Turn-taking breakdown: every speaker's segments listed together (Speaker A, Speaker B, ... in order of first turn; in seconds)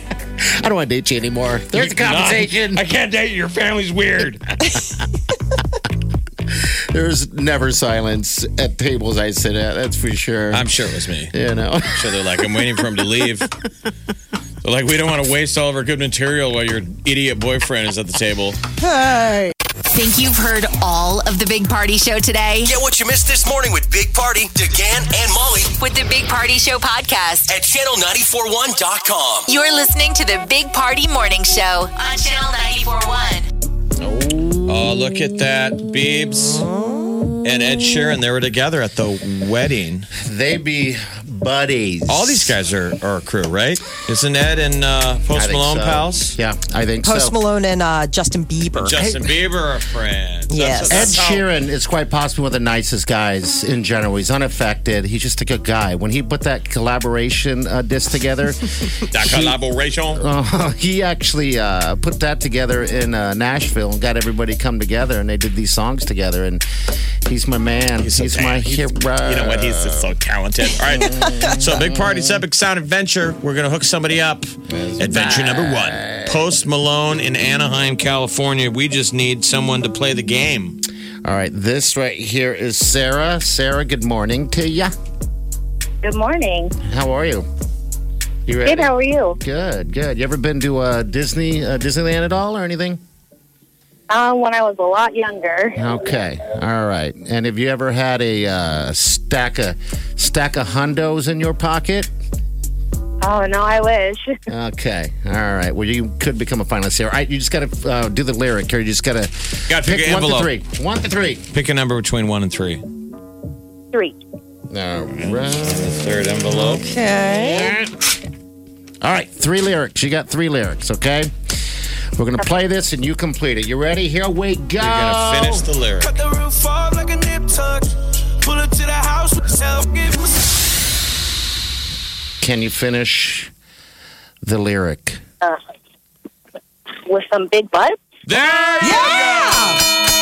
Speaker A: 0.4-2.8, 6.5-10.8, 11.3-12.8, 34.0-34.6, 40.1-42.5, 45.3-47.4, 49.0-49.3, 50.9-59.5, 60.1-66.6, 67.2-70.1, 70.8-72.4, 74.7-76.5, 81.2-84.9, 86.8-87.5, 88.5-93.0, 95.8-102.1, 104.5-111.4, 114.7-116.0, 117.3-118.1, 119.0-121.3, 122.2-125.6, 132.4-133.5, 134.4-135.2, 138.3-138.9
Speaker B: 1.7-4.5, 10.5-11.3, 11.9-13.5, 14.6-18.6, 34.6-36.7, 37.4-40.1, 42.1-46.4, 48.8-51.4, 59.1-60.2, 68.0-80.8, 109.7-110.5, 111.5-112.8, 115.2-116.8, 124.8-126.2, 138.3-139.8
Speaker C: 18.9-19.4, 47.0-49.0, 50.5-51.1, 71.2-71.6, 116.5-117.8, 138.8-139.8
Speaker D: 19.9-22.8, 25.8-27.5, 29.5-33.5
Speaker E: 22.6-25.8, 27.5-29.5
Speaker F: 86.0-86.8, 88.7-89.4, 94.1-95.8, 103.2-104.3, 113.9-114.2, 137.1-138.0
Speaker G: 126.0-130.3